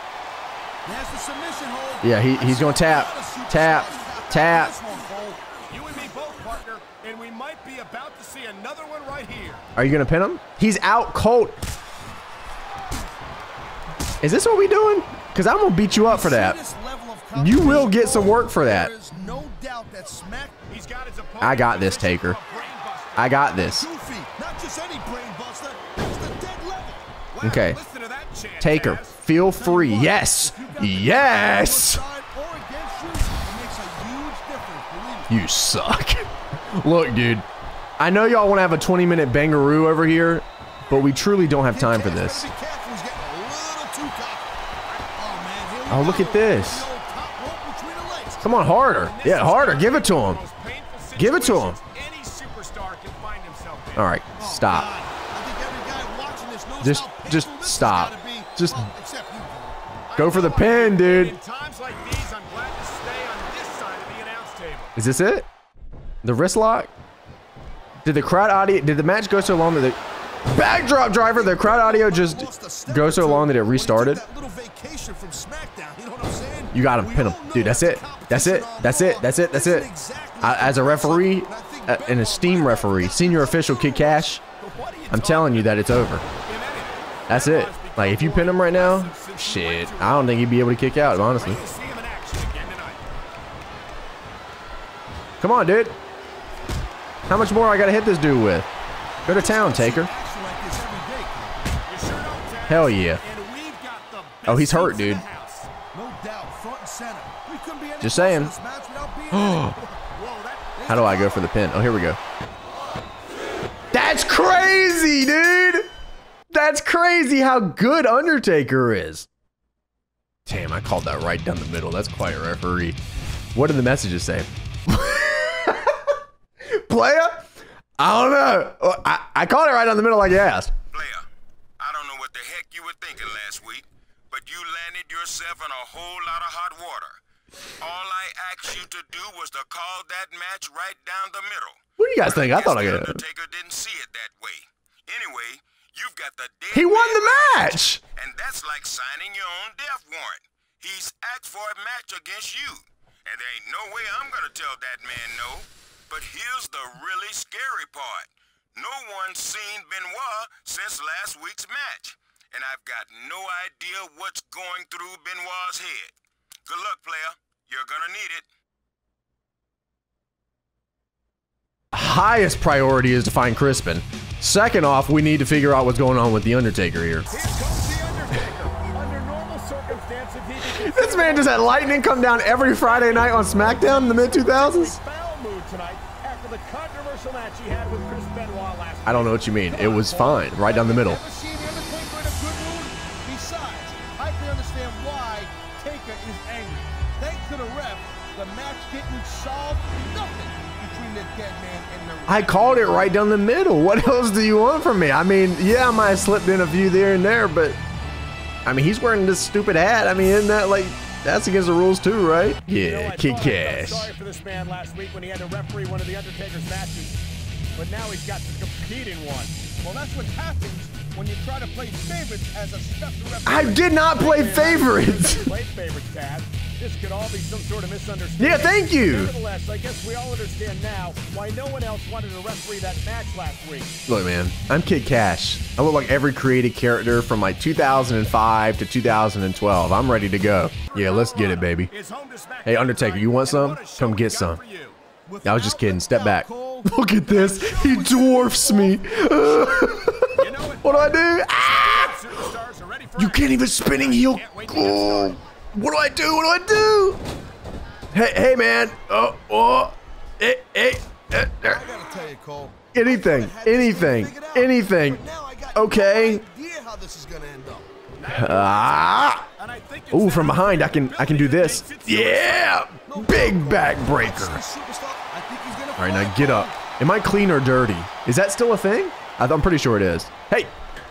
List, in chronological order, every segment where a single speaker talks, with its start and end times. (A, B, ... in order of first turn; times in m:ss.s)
0:00.8-0:05.6 A
0:02.0-0:04.7 B
0:05.7-0:09.6 C
0:09.8-0:11.6 B
0:14.2-0:16.6 B
0:16.0-0:20.6 A
0:17.4-0:18.9 B
0:20.7-0:23.4 C
0:21.4-0:22.4 B
0:23.2-0:23.9 B
0:23.6-0:27.1 A
0:27.3-0:29.2 C
0:27.4-0:27.8 B
0:28.6-0:32.0 B
0:29.4-0:35.4 A
0:35.3-0:37.4 B
0:38.0-0:42.5 B
0:41.6-0:44.6 A
0:45.1-0:48.5 A
0:45.9-0:46.9 B
0:48.4-0:50.4 B
0:49.0-0:54.1 C
0:51.2-0:51.8 B
0:54.0-0:54.9 B
0:54.4-0:59.8 A
0:56.8-0:58.9 B
1:00.1-1:04.9 C
1:00.2-1:01.3 B
1:05.0-1:05.5 B
1:06.2-1:06.9 B
1:08.0-1:14.2 B
1:11.2-1:24.3 A
1:16.7-1:19.9 B
1:20.4-1:24.4 B
1:24.6-1:25.8 C
1:25.1-1:26.2 B
1:26.4-1:33.0 C
1:27.3-1:31.6 B
1:35.4-1:36.0 B
1:37.3-1:38.7 B
1:39.2-1:40.1 B
1:39.2-1:41.6 A
1:41.8-1:45.7 C
1:42.7-1:43.2 B
1:44.4-1:45.2 B
1:45.9-1:50.0 A
1:48.0-1:48.5 B
1:49.4-1:49.7 B
1:50.1-1:50.8 C
1:50.7-1:51.5 A
1:50.9-1:52.2 B
1:53.9-1:55.9 B
1:56.5-1:59.3 B
2:00.4-2:03.0 B
2:03.5-2:06.1 B
2:06.7-2:07.4 B
2:08.0-2:10.7 B
2:10.9-2:11.2 D
2:11.8-2:17.2 D
2:17.8-2:48.5 D
2:22.0-2:23.2 B
2:26.7-2:28.0 B
2:51.9-2:57.3 B
2:57.3-3:09.5 C
3:00.7-3:05.0 B
3:09.0-3:11.2 B
3:09.7-3:22.9 A
3:22.3-3:27.8 B
3:28.6-3:34.1 B
3:32.8-3:37.2 C
3:37.7-3:39.6 C
3:39.8-3:43.9 A
3:43.4-3:45.5 B
3:44.1-3:54.0 C
3:48.4-3:49.3 B
3:54.1-4:01.9 B
4:00.9-4:05.0 C
4:02.6-4:04.6 B
4:05.2-4:10.2 A
4:05.4-4:12.2 B
4:10.3-4:15.4 C
4:13.2-4:17.2 B
4:18.1-4:21.8 B
4:21.6-4:27.9 A
4:22.9-4:25.2 B
4:25.7-4:26.4 B
4:28.2-4:32.8 C
4:28.3-4:29.5 B
4:30.1-4:34.6 B
4:33.0-4:36.8 A
4:36.0-4:40.7 B